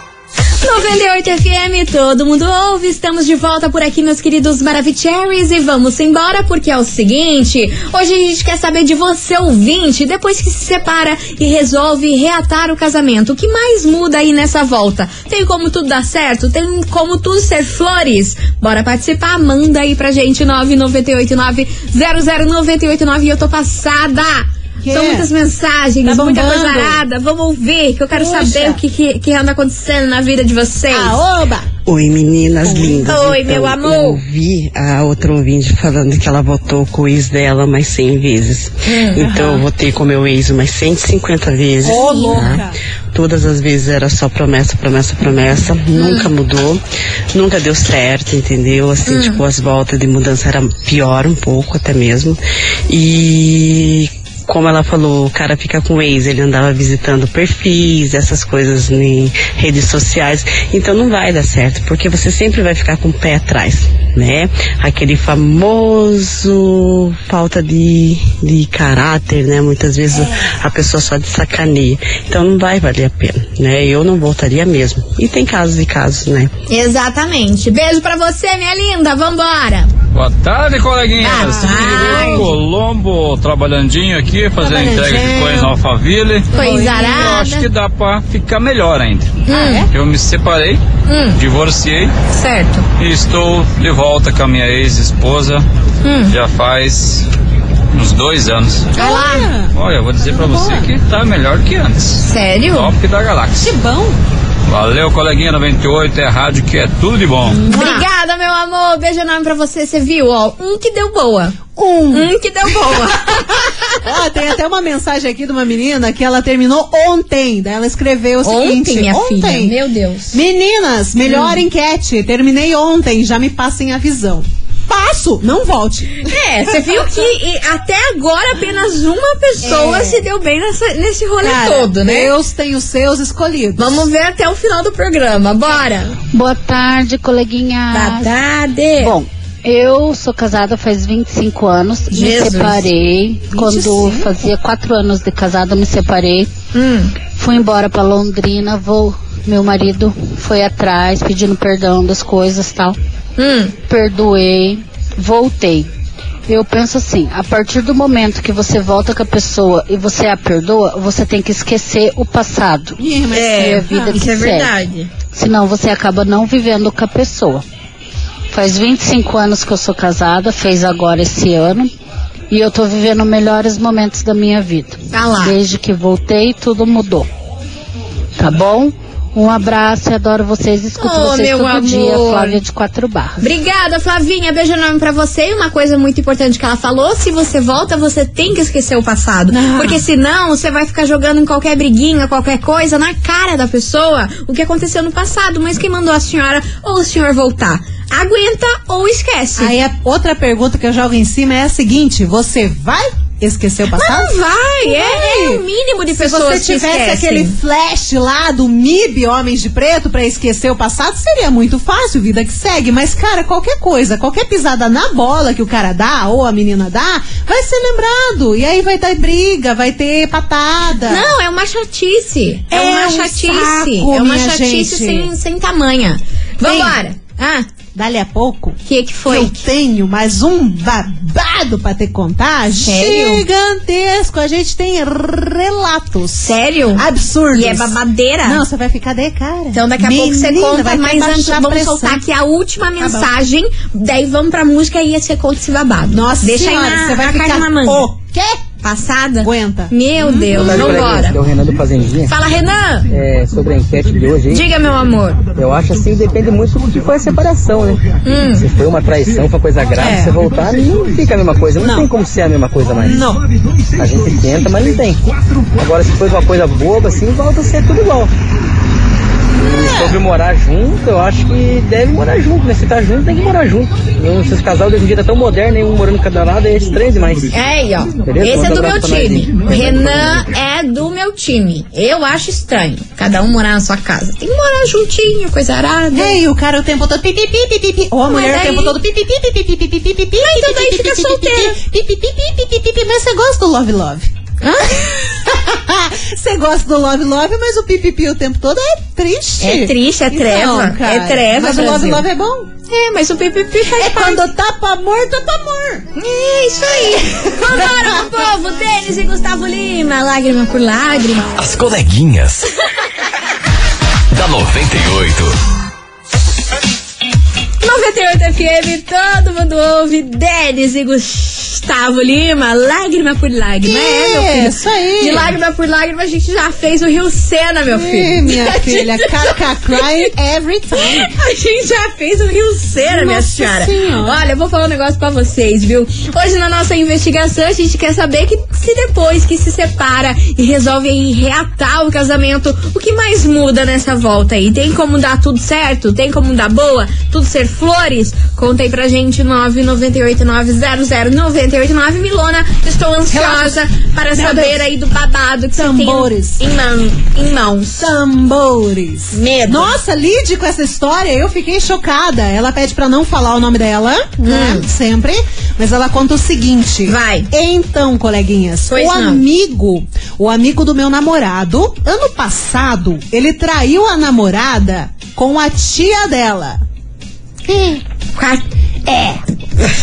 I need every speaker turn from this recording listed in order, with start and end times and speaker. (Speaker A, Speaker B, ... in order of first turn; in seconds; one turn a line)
Speaker A: 0.6-31.2
Speaker B: 24.8-25.3
Speaker B: 26.0-27.0
Speaker B: 28.1-28.8
Speaker B: 30.9-31.7
Speaker C: 31.9-76.5
Speaker B: 32.6-33.2
Speaker A: 33.1-34.2
Speaker A: 38.8-39.5
Speaker B: 39.3-39.6
Speaker B: 41.8-42.8
Speaker A: 41.9-42.6
Speaker A: 45.9-46.3
Speaker A: 49.0-49.4
Speaker A: 76.7-79.9
Speaker D: 80.1-90.8
Speaker A: 81.2-82.5
Speaker B: 81.4-82.5
Speaker B: 84.6-85.7
Speaker B: 86.5-87.3
Speaker A: 86.5-87.7
Speaker A: 89.5-89.9
Speaker B: 89.5-89.9
Speaker A: 91.1-91.4
Speaker D: 91.3-92.1
Speaker A: 92.3-92.9
Speaker D: 93.0-95.6
Speaker A: 96.0-96.3
Speaker D: 96.3-97.3
Speaker D: 97.9-98.9
Speaker A: 98.9-99.5
Speaker B: 98.9-100.9
Speaker D: 99.7-103.7
Speaker A: 102.2-102.9
Speaker B: 103.6-104.2
Speaker D: 104.7-107.6
Speaker B: 107.5-108.1
Speaker A: 107.6-113.7
Speaker B: 111.7-113.4
Speaker B: 114.0-119.8
Speaker A: 118.4-120.4
Speaker B: 120.3-127.3
Speaker A: 121.2-121.6
Speaker A: 126.2-132.3
Speaker B: 129.6-130.2
Speaker B: 131.4-134.1
Speaker A: 133.8-136.2
Speaker E: 136.3-138.3
Speaker A: 137.9-139.2
Speaker E: 139.0-146.5
Speaker A: 142.1-142.9
Speaker B: 143.5-144.3
Speaker A: 146.7-147.1
Speaker E: 147.3-153.0
Speaker A: 153.4-153.7
Speaker E: 153.9-155.9
Speaker E: 156.5-163.0
Speaker B: 163.0-164.2
Speaker A: 163.3-165.1
Speaker E: 163.5-164.7
Speaker E: 165.3-167.6
Speaker E: 168.5-171.9
Speaker E: 172.5-177.3
Speaker A: 175.1-175.6
Speaker E: 178.4-183.5
Speaker A: 180.9-182.6
Speaker A: 183.4-199.7
Speaker B: 189.5-190.0
Speaker B: 199.6-204.3
Speaker A: 203.9-207.5
Speaker B: 204.8-221.3
Speaker A: 221.1-227.7
Speaker B: 222.7-225.3
Speaker B: 226.6-227.0
Speaker B: 227.9-242.2
Speaker A: 228.8-229.6
Speaker A: 232.8-233.4
Speaker A: 236.4-238.6
Speaker A: 239.7-248.1
Speaker B: 243.0-243.3
Speaker B: 246.1-248.6
Speaker A: 248.8-251.4
Speaker B: 249.4-251.2
Speaker F: 250.5-252.3
Speaker A: 252.3-253.1
Speaker F: 253.1-254.7
Speaker A: 254.5-255.4
Speaker F: 255.5-263.2
Speaker A: 258.2-258.7
Speaker B: 259.9-260.4
Speaker B: 261.8-262.1
Speaker B: 263.0-263.4
Speaker F: 264.0-268.3
Speaker B: 269.6-270.2
Speaker F: 269.6-277.5
Speaker A: 277.5-286.4
Speaker F: 278.2-280.4
Speaker B: 286.1-294.3
Speaker A: 288.3-289.0
Speaker A: 290.4-291.8
Speaker A: 294.6-295.2
Speaker B: 294.9-302.7
Speaker A: 299.6-302.2
Speaker A: 302.9-304.4
Speaker B: 303.9-306.1
Speaker A: 306.1-311.6
Speaker B: 306.9-308.5
Speaker G: 311.6-312.6
Speaker G: 314.3-315.6
Speaker A: 317.8-330.3
Speaker B: 323.8-325.6
Speaker B: 327.9-331.3
Speaker A: 330.9-358.1
Speaker B: 333.0-334.4
Speaker B: 353.3-353.8
Speaker B: 354.3-354.9
Speaker B: 355.8-356.6
Speaker B: 358.0-376.8
Speaker A: 359.3-359.9
Speaker A: 364.5-364.9
Speaker A: 367.1-367.5
Speaker A: 368.9-369.4
Speaker B: 377.6-378.0
Speaker A: 378.4-378.6
Speaker B: 379.1-379.4